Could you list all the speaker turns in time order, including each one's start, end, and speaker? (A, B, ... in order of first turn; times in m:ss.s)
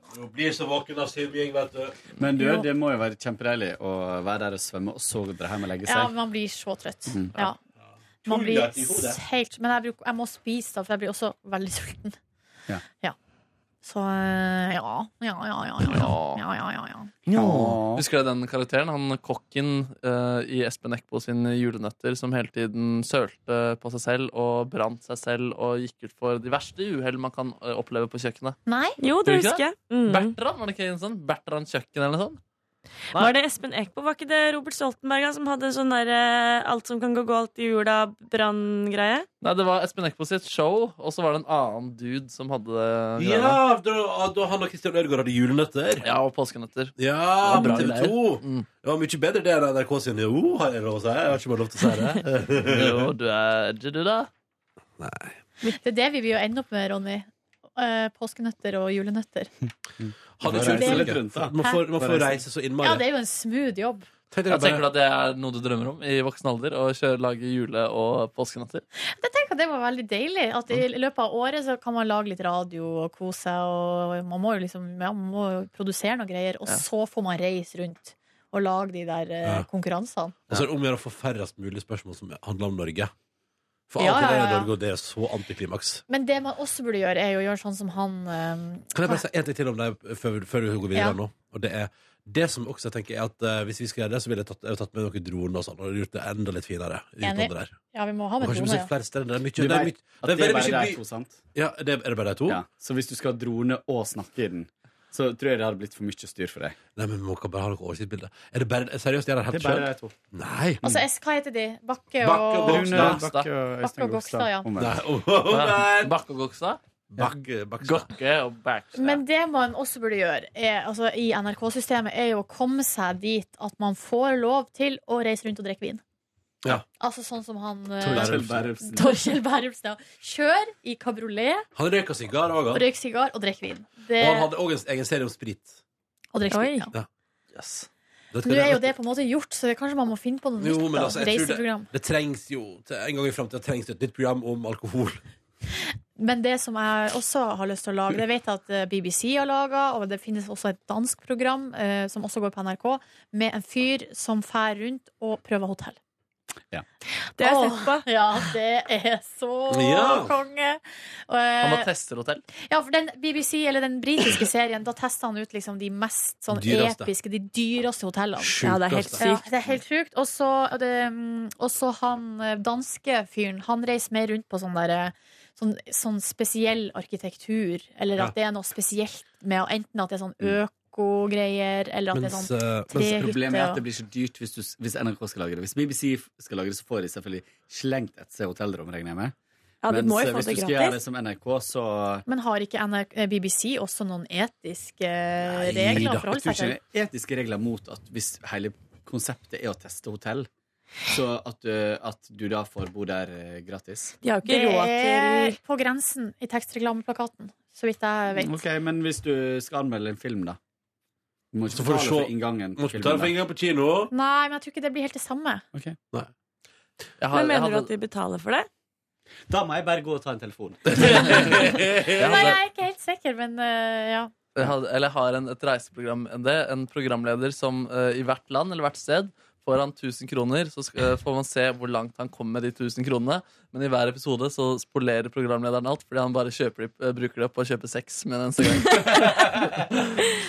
0:00.1-0:02.0 A
0:02.2-0:06.1 B
0:02.4-0:02.7 C
0:05.8-0:07.6 C
0:08.2-0:09.2 A
0:08.2-0:12.2 C
0:13.8-0:17.1 C
0:15.8-0:16.4 D
0:17.3-0:28.6 D
0:17.3-0:18.0 B
0:28.7-0:29.0 C
0:29.0-0:30.3 E
0:29.2-0:32.4 D
0:33.1-0:39.3 E
0:39.4-0:43.6 D
0:43.2-0:46.1 A
0:46.0-0:48.7 D
0:47.0-0:53.1 A
0:52.6-0:54.3 D
0:55.0-0:55.4 A
0:55.6-0:59.5 C
1:00.0-1:02.4 B
1:00.4-1:03.0 A
1:00.6-1:01.8 C
1:02.8-1:04.1 C
1:04.3-1:04.9 A
1:04.5-1:08.8 D
1:09.1-1:20.4 C
1:20.5-1:23.1 A
1:23.9-1:26.0 A
1:24.0-1:24.7 C
1:26.1-1:29.2 C
1:28.9-1:37.7 A
1:37.2-1:38.9 C
1:38.4-1:41.0 A
1:39.6-1:41.4 B
1:41.5-1:42.6 A
1:42.5-1:46.8 B
1:47.0-1:50.8 A
1:49.5-1:50.1 B
1:50.8-1:53.2 C
1:52.2-1:53.2 A
1:52.6-1:55.0 B
1:53.1-1:53.5 D
1:53.8-1:54.7 C
1:54.8-1:56.1 A
1:55.5-1:59.2 D
1:57.1-1:58.1 A
1:59.0-2:06.0 C
2:07.0-2:11.6 C
2:08.0-2:08.7 A
2:08.0-2:09.2 B
2:11.7-2:12.8 A
2:12.7-2:14.5 C
2:14.2-2:15.8 A
2:16.3-2:16.9 C
2:16.5-2:16.9 E
2:17.5-2:17.9 D
2:18.3-2:18.9 A
2:18.4-2:21.9 C
2:20.6-2:25.2 A
2:25.7-2:36.0 C
2:37.4-2:38.0 E
2:37.4-2:41.9 C
2:39.7-2:40.3 A
2:41.6-2:42.4 D
2:42.6-2:48.6 C
2:46.5-2:47.1 A
2:48.4-2:49.2 A
2:48.6-2:49.5 E
2:49.2-3:03.8 C
3:02.1-3:03.2 A
3:02.9-3:09.3 B
3:09.8-3:11.0 E
3:09.9-3:12.2 B
3:12.2-3:16.8 C
3:15.6-3:16.4 A
3:15.7-3:20.5 B
3:21.1-3:24.1 B
3:24.2-3:25.6 E
3:24.4-3:28.6 C
3:28.4-3:30.6 B
3:31.5-3:33.3 B
3:31.7-3:34.1 A
3:34.1-3:35.6 C
3:37.2-3:37.9 D
3:37.3-3:38.7 E
3:39.5-3:41.4 B
3:40.9-3:42.5 A
3:41.1-3:41.4 D
3:42.2-3:44.3 C
3:42.2-3:42.6 D
3:44.5-4:00.2 D